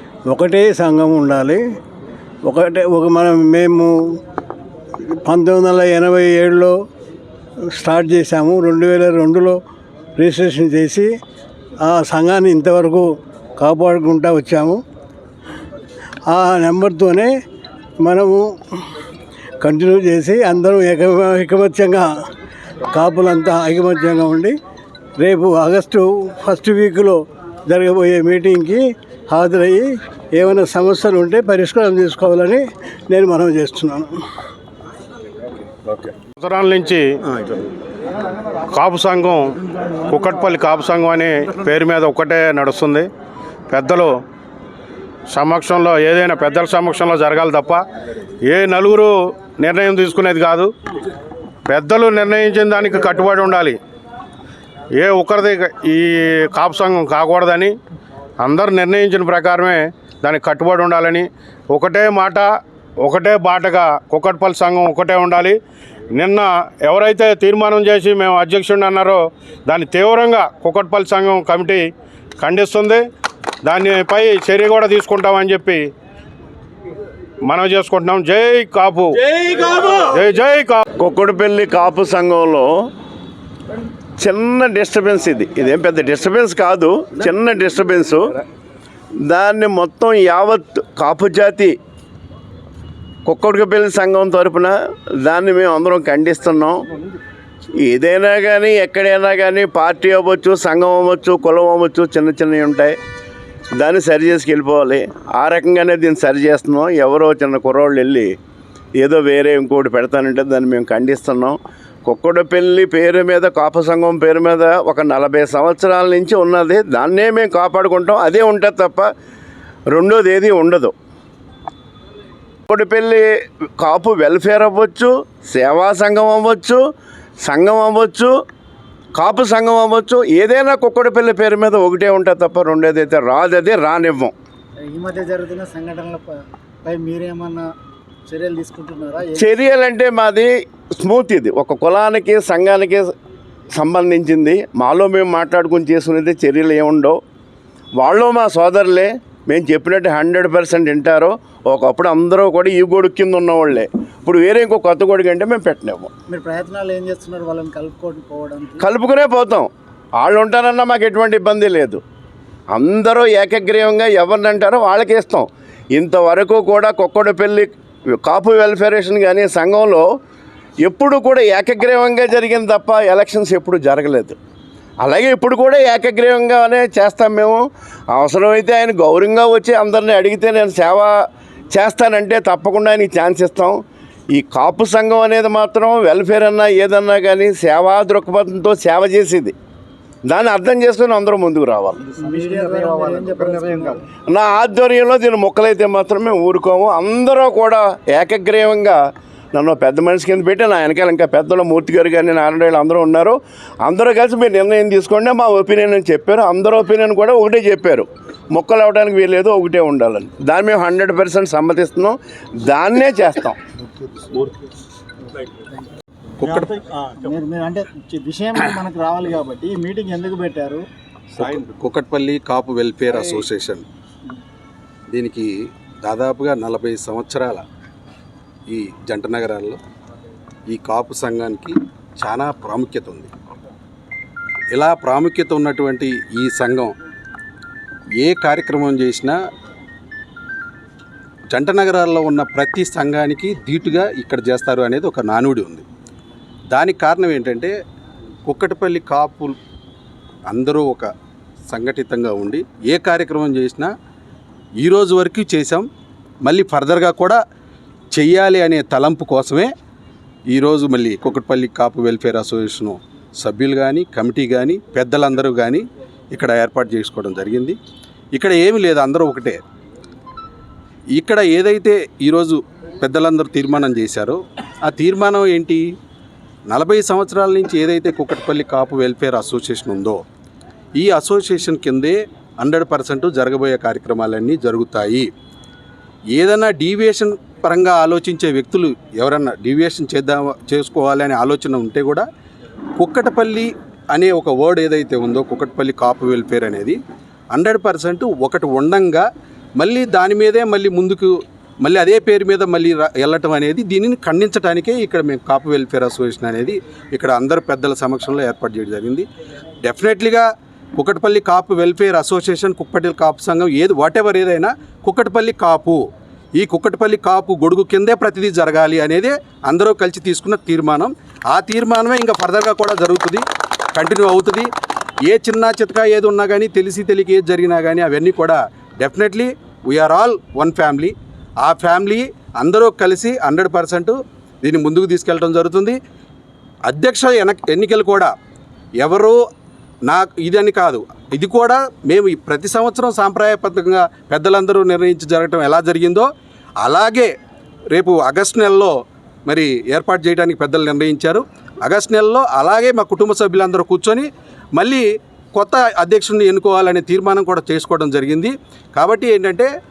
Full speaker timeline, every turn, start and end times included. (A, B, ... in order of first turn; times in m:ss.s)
0:00.3-0:01.6 A
0:02.4-0:04.2 A
0:05.0-0:06.8 A
0:07.7-0:09.6 A
0:10.2-0:11.1 A
0:11.8-0:14.8 A
0:16.3-0:17.3 A
0:18.0-0:18.8 A
0:19.6-0:22.1 A
0:22.9-0:24.5 A
0:25.2-0:34.1 A
0:35.9-0:37.1 B
0:38.7-0:39.5 B
0:40.1-0:43.1 B
0:43.7-0:44.1 B
0:45.3-0:47.8 B
0:48.4-0:50.7 B
0:51.7-0:53.8 B
0:55.0-0:57.7 B
0:58.4-1:02.5 B
1:03.0-1:05.6 B
1:06.1-1:11.8 B
1:12.4-1:13.0 B
1:13.6-1:15.9 B
1:17.4-1:19.2 B
1:19.4-1:20.0 C
1:20.0-1:20.8 B
1:21.0-1:22.7 D
1:24.2-1:28.2 D
1:29.2-1:31.7 D
1:33.2-1:36.8 D
1:37.8-1:42.9 D
1:43.8-1:48.3 D
1:49.0-1:59.1 D
1:59.9-2:00.9 D
2:02.7-2:03.2 D
2:03.8-2:06.8 D
2:07.4-2:08.3 D
2:09.2-2:14.3 D
2:14.9-2:16.3 E
2:16.8-2:17.6 E
2:18.3-2:19.6 E
2:19.4-2:23.1 D
2:23.7-2:27.2 D
2:28.0-2:36.1 D
2:36.3-2:38.8 E
2:38.8-2:42.0 D
2:42.7-2:50.0 D
2:50.8-2:54.3 D
2:55.0-2:57.6 D
2:58.1-3:01.1 D
3:01.7-3:03.8 D
3:04.3-3:09.5 D
3:10.3-3:12.0 D
3:12.2-3:14.0 E
3:14.3-3:19.0 D
3:19.5-3:33.6 D
3:35.4-3:35.8 E
3:36.4-3:36.7 C
3:36.4-3:40.8 E
3:41.3-3:43.8 C
3:45.1-3:47.6 C
3:48.7-3:49.8 C
3:50.7-3:53.3 C
3:54.7-3:56.9 C
3:58.2-3:59.4 C
4:01.5-4:05.8 C
4:06.7-4:07.7 C
4:08.4-4:09.6 C
4:10.5-4:11.1 C
4:11.7-4:13.9 C
4:14.8-4:15.8 C
4:16.4-4:17.4 C
4:18.1-4:19.7 C
4:20.5-4:27.8 C
4:28.3-4:29.6 C
4:31.1-4:35.8 C
4:36.7-4:40.2 C
4:41.0-4:45.3 C
4:46.3-4:52.2 C
4:53.0-4:57.0 C
4:57.5-4:59.2 C
4:59.8-5:09.2 C
5:09.8-5:10.4 C
5:11.0-5:16.0 C
5:16.6-5:23.4 C
5:23.9-5:24.7 C
5:25.3-5:36.0 C
5:36.9-5:38.3 C
5:39.0-5:39.4 C
5:40.1-5:46.3 C
5:46.8-5:47.3 C
5:47.9-5:48.9 C
5:49.5-5:59.7 C